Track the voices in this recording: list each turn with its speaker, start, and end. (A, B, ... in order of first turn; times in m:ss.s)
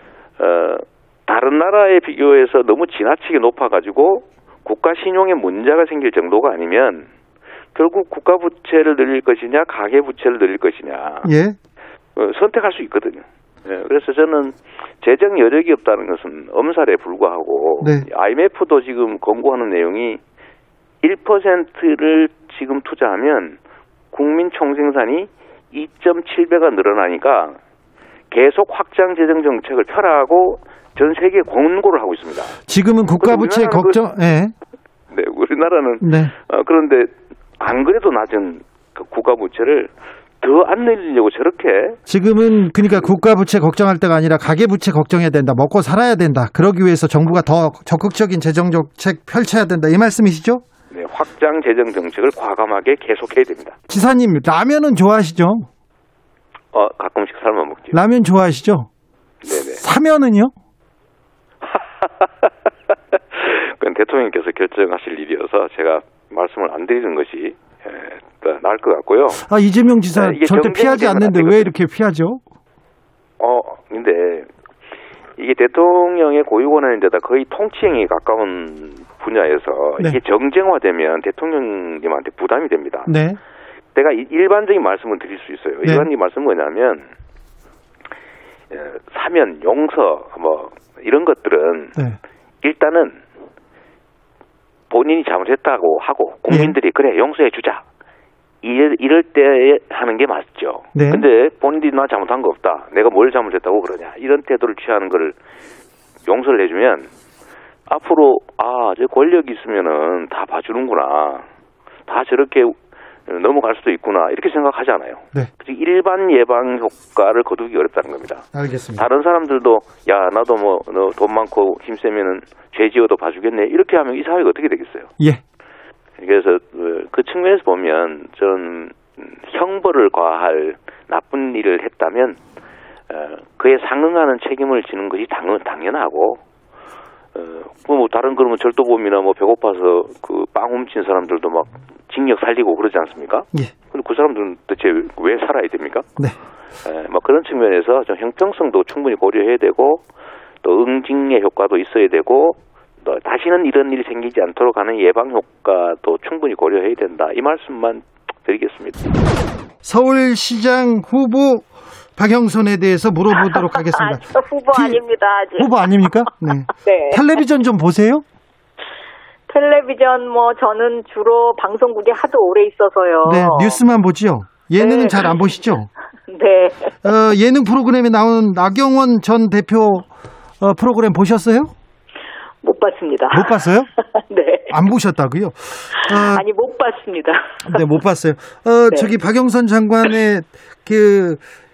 0:00.4-0:07.1 A
0:07.7-0:11.3 A
0:11.2-0:11.6 B
0:12.2-0:20.2 A
0:17.8-0:18.1 B
0:21.0-0:23.6 A
0:24.1-0:27.6 A
0:28.3-0:32.6 A
0:32.7-0:34.5 B
0:33.2-0:34.0 A
0:35.1-0:39.9 A
0:36.0-0:36.3 B
0:40.4-0:42.0 A
0:42.1-0:50.6 B
0:50.9-0:53.8 A
0:53.9-0:55.7 B
0:56.7-0:58.0 A
0:57.9-0:58.9 B
0:59.4-0:59.8 A
0:59.8-1:00.5 B
1:01.6-1:02.5 A
1:03.1-1:09.4 A
1:09.4-1:12.4 B
1:10.1-1:11.7 A
1:13.4-1:14.5 A
1:15.4-1:23.1 A
1:23.1-1:23.4 B
1:23.9-1:27.1 A
1:28.7-1:32.0 A
1:32.6-1:33.2 A
1:34.9-1:37.8 A
1:36.5-1:36.7 B
1:38.6-1:45.4 A
1:40.9-1:41.2 B
1:46.2-1:47.1 A
1:47.9-1:51.4 A
1:52.1-1:52.8 A
1:53.3-2:05.1 A
1:58.5-1:59.1 B
2:06.2-2:12.4 A
2:13.1-2:16.4 A
2:17.4-2:26.1 A
2:26.8-2:30.0 A
2:30.6-2:39.0 A
2:39.8-2:45.0 B
2:43.4-2:46.1 C
2:45.6-2:48.2 B
2:46.7-2:47.2 C
2:49.5-2:53.8 C
2:53.2-2:55.9 B
2:54.8-2:55.4 C
2:56.3-2:56.9 C
2:57.0-3:00.1 B
3:00.6-3:01.7 B
3:02.6-3:03.6 C
3:03.3-3:03.9 B
3:04.2-3:04.7 C
3:04.7-3:06.4 B
3:06.0-3:07.8 C
3:07.6-3:11.4 B